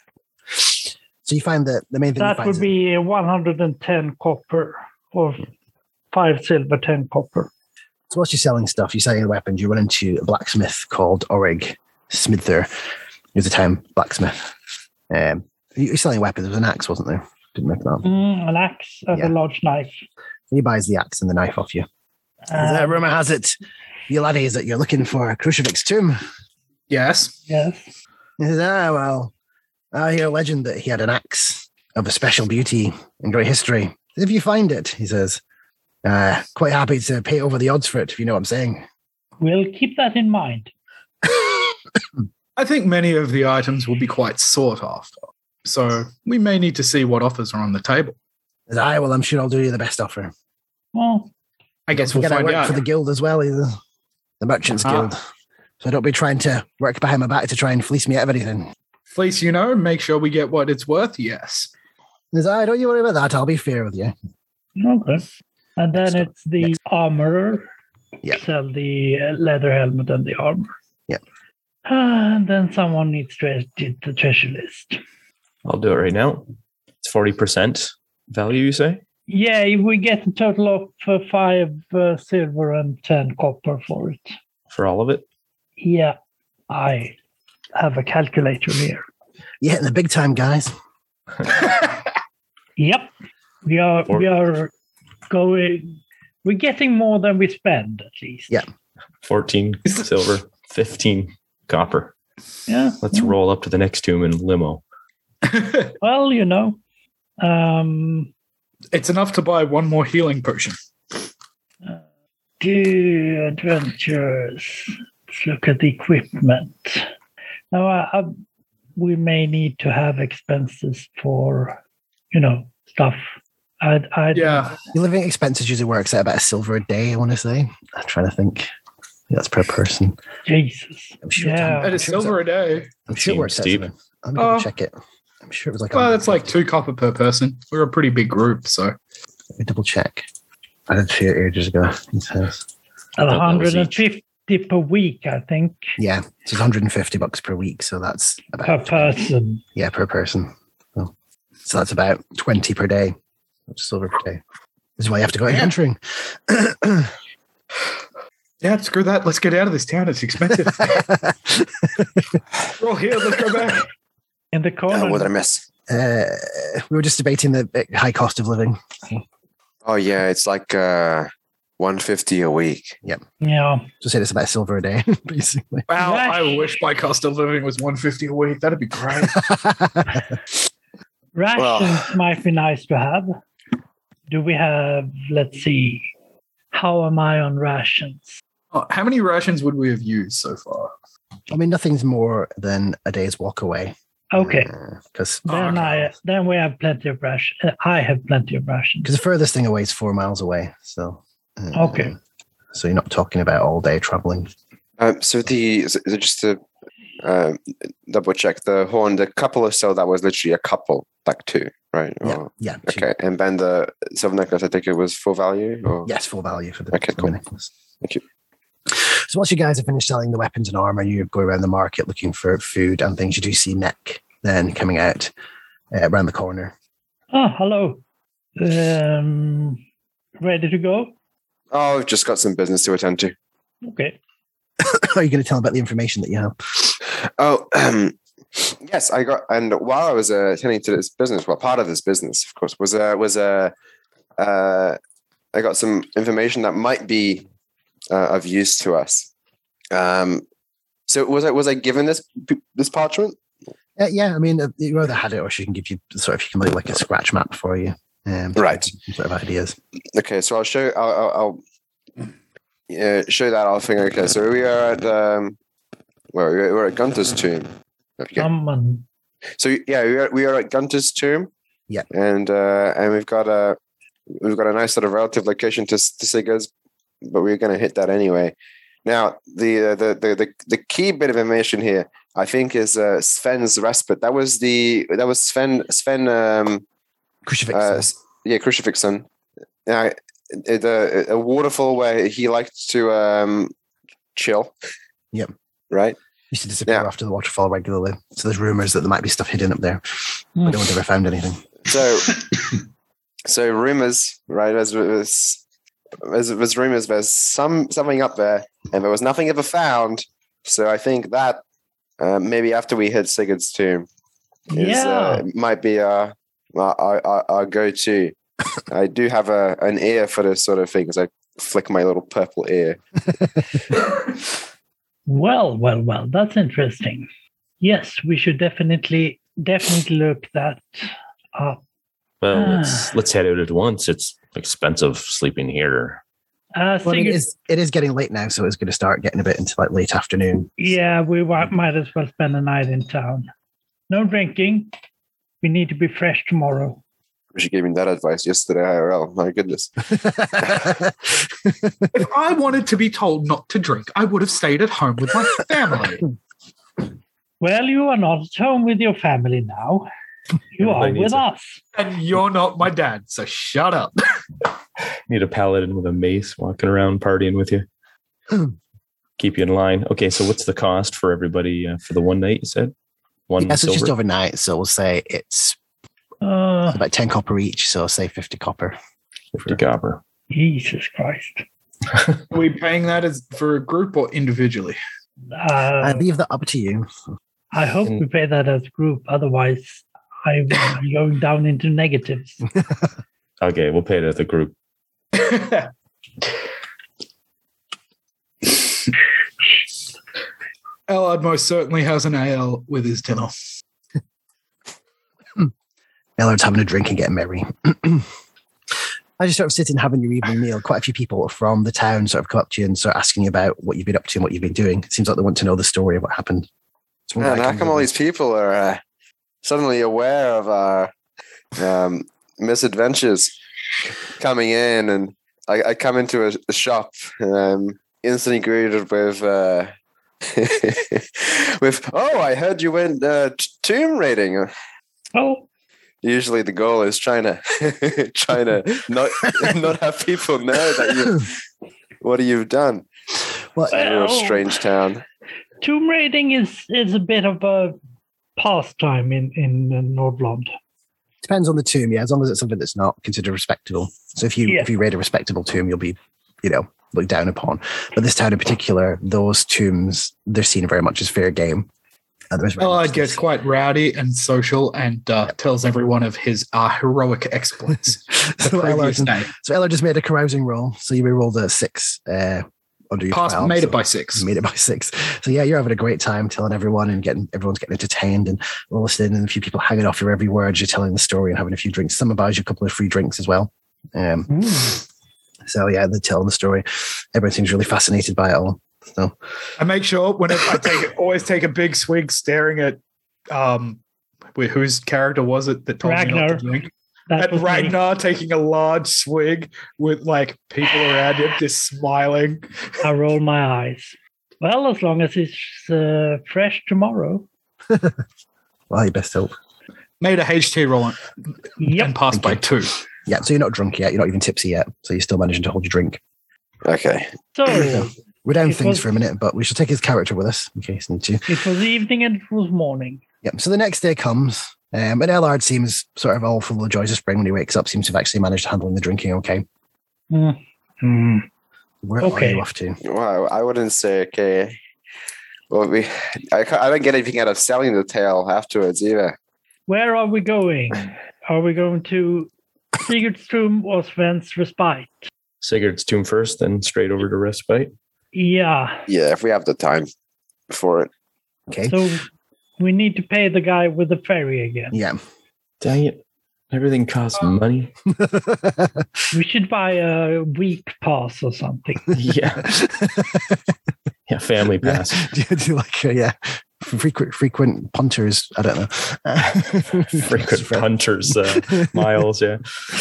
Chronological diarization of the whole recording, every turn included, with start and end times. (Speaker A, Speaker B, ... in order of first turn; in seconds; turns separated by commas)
Speaker A: 1.2-2.7, Speaker B: 2.2-5.5, Speaker B: 6.1-7.5, Speaker A: 8.1-12.7, Speaker A: 13.3-14.5, Speaker A: 15.1-18.0, Speaker B: 18.0-20.0, Speaker A: 20.5-21.9, Speaker B: 22.5-23.0, Speaker A: 22.5-23.6, Speaker A: 24.1-26.2, Speaker C: 26.9-27.4, Speaker B: 27.5-27.9, Speaker A: 28.4-29.3, Speaker A: 29.9-35.4, Speaker A: 36.0-38.9, Speaker B: 39.4-40.7, Speaker C: 42.5-45.1, Speaker C: 45.6-48.1, Speaker A: 48.7-50.3, Speaker B: 50.9-51.3, Speaker C: 51.9-52.8, Speaker A: 51.9-53.8, Speaker A: 54.4-55.2, Speaker C: 54.8-55.1, Speaker A: 55.8-58.7, Speaker C: 59.1-61.7, Speaker A: 62.3-64.1, Speaker B: 64.8-67.7, Speaker A: 65.9-66.7, Speaker B: 68.3-70.7, Speaker B: 71.8-75.0, Speaker D: 75.6-76.5, Speaker D: 77.0-79.0, Speaker B: 79.3-84.3, Speaker D: 84.7-85.2, Speaker B: 85.8-86.2, Speaker B: 86.7-87.2, Speaker B: 87.7-89.0, Speaker A: 89.6-90.7, Speaker B: 92.8-93.1, Speaker B: 93.6-94.7, Speaker B: 95.3-98.6, Speaker D: 99.2-102.1, Speaker B: 102.7-103.3, Speaker D: 103.0-104.8, Speaker C: 105.4-105.9, Speaker B: 106.0-106.8, Speaker B: 107.4-108.3, Speaker C: 108.9-110.8, Speaker B: 112.6-117.1, Speaker B: 117.7-118.4, Speaker B: 119.0-121.8, Speaker B: 122.3-123.2, Speaker B: 123.8-124.8, Speaker C: 124.3-124.8, Speaker A: 124.9-128.7, Speaker A: 129.3-130.2, Speaker B: 130.4-132.0, Speaker A: 131.2-132.4, Speaker C: 131.8-132.9, Speaker A: 133.1-136.5, Speaker D: 133.2-133.8, Speaker C: 134.4-134.7, Speaker C: 135.9-138.9, Speaker A: 139.6-140.2, Speaker A: 140.9-142.6, Speaker B: 143.2-145.9, Speaker D: 143.3-143.9, Speaker A: 146.0-149.2, Speaker B: 148.6-149.6, Speaker A: 149.8-151.1, Speaker A: 151.6-153.2, Speaker A: 153.7-154.4, Speaker A: 155.0-157.1, Speaker C: 158.6-161.0, Speaker A: 160.8-162.3, Speaker C: 162.8-163.9, Speaker B: 164.5-165.3, Speaker E: 164.9-165.6, Speaker A: 165.9-169.2, Speaker E: 169.8-171.3, Speaker E: 171.8-173.0, Speaker B: 173.4-173.9, Speaker A: 174.0-175.8, Speaker C: 175.9-179.4, Speaker B: 176.0-176.8, Speaker A: 179.3-180.2, Speaker B: 181.3-183.3, Speaker E: 181.6-182.0, Speaker B: 184.3-186.1, Speaker B: 186.7-188.4, Speaker C: 188.7-190.9, Speaker A: 191.5-196.1, Speaker B: 194.3-194.7, Speaker B: 195.5-199.1, Speaker C: 195.5-195.8, Speaker A: 199.0-202.2, Speaker B: 201.7-202.1, Speaker A: 202.7-204.5, Speaker E: 205.0-206.6, Speaker E: 207.2-216.1, Speaker A: 212.2-213.1, Speaker A: 216.0-217.7, Speaker E: 216.9-217.3, Speaker A: 218.9-225.3, Speaker A: 225.9-226.7, Speaker B: 227.3-228.0, Speaker B: 228.6-229.8, Speaker B: 230.4-231.1, Speaker E: 231.7-233.3, Speaker B: 233.8-234.2, Speaker A: 234.8-236.9, Speaker E: 237.1-243.7, Speaker E: 244.4-245.0, Speaker E: 245.5-247.5, Speaker E: 248.1-249.3, Speaker E: 249.9-250.4, Speaker E: 251.1-253.4, Speaker A: 254.0-259.8, Speaker E: 258.6-258.9, Speaker E: 260.1-261.6, Speaker E: 262.9-265.6, Speaker E: 266.3-268.5, Speaker B: 268.4-269.0, Speaker E: 269.6-271.5, Speaker E: 272.1-273.8, Speaker E: 274.4-276.7, Speaker E: 277.2-278.5, Speaker E: 279.0-286.8, Speaker A: 287.4-288.1, Speaker E: 287.7-289.2, Speaker E: 289.9-293.7, Speaker E: 294.4-294.7, Speaker E: 295.9-296.2, Speaker A: 296.5-301.6, Speaker E: 301.9-302.4, Speaker E: 303.4-305.6, Speaker E: 306.2-311.6, Speaker E: 312.2-314.1, Speaker B: 314.7-315.4, Speaker E: 314.7-318.3, Speaker E: 318.9-323.0, Speaker B: 325.3-327.3, Speaker B: 327.8-331.8, Speaker D: 332.4-336.2, Speaker B: 332.5-333.1, Speaker B: 336.8-337.4, Speaker A: 337.0-340.7, Speaker B: 340.8-343.5, Speaker B: 344.1-344.9, Speaker B: 345.6-347.0, Speaker E: 347.5-349.9, Speaker A: 350.2-351.1, Speaker C: 352.1-356.2, Speaker B: 357.6-360.1, Speaker B: 360.7-361.8, Speaker D: 360.8-361.4, Speaker C: 361.9-364.1, Speaker D: 365.3-367.9, Speaker D: 369.4-372.9, Speaker D: 373.5-374.1, Speaker A: 373.6-375.8, Speaker B: 376.4-377.0, Speaker A: 376.9-378.9, Speaker D: 379.6-380.2, Speaker B: 380.5-381.6, Speaker C: 382.5-385.0, Speaker B: 385.5-386.2, Speaker A: 386.0-387.1, Speaker B: 387.7-392.6, Speaker D: 393.6-394.7, Speaker C: 395.3-395.9, Speaker C: 401.1-403.5, Speaker A: 406.4-408.3, Speaker A: 409.4-416.7, Speaker A: 417.3-418.1, Speaker E: 417.4-419.0, Speaker E: 419.6-421.1, Speaker E: 421.8-423.5, Speaker E: 424.4-429.9, Speaker E: 430.5-434.7, Speaker B: 435.3-435.6, Speaker E: 436.2-441.5, Speaker E: 442.2-443.1, Speaker E: 443.9-445.2, Speaker B: 443.9-444.7, Speaker B: 445.8-448.0, Speaker B: 448.6-450.7, Speaker A: 451.4-461.9, Speaker A: 462.5-463.4, Speaker C: 462.8-469.5, Speaker A: 468.5-484.8, Speaker C: 473.3-474.5, Speaker B: 484.5-485.0, Speaker A: 485.6-489.3, Speaker C: 489.8-493.0, Speaker C: 493.5-494.0, Speaker C: 494.6-502.6, Speaker B: 496.0-496.7, Speaker B: 497.3-498.0, Speaker B: 503.0-507.4, Speaker A: 507.9-508.2, Speaker A: 508.9-509.5, Speaker C: 510.2-511.2, Speaker B: 511.8-512.2, Speaker C: 511.8-513.0, Speaker A: 512.3-512.6, Speaker A: 513.2-516.2, Speaker E: 516.8-517.3, Speaker B: 517.5-519.1, Speaker A: 517.7-521.5, Speaker B: 521.5-523.2, Speaker A: 523.4-529.6, Speaker B: 530.3-531.5, Speaker A: 532.0-533.0, Speaker B: 532.2-532.6, Speaker E: 533.0-534.8, Speaker E: 535.7-539.4, Speaker B: 539.9-545.2, Speaker D: 545.6-547.9, Speaker B: 548.3-549.0, Speaker E: 549.1-550.1, Speaker E: 550.7-551.1, Speaker A: 551.7-552.1, Speaker B: 551.9-552.2, Speaker B: 552.8-555.0, Speaker A: 554.9-555.2, Speaker D: 555.8-556.2, Speaker D: 556.7-557.9, Speaker A: 558.1-559.1, Speaker B: 559.3-562.0, Speaker D: 562.1-562.7, Speaker A: 562.6-563.6, Speaker D: 564.3-565.3, Speaker A: 564.8-572.2, Speaker D: 570.1-572.6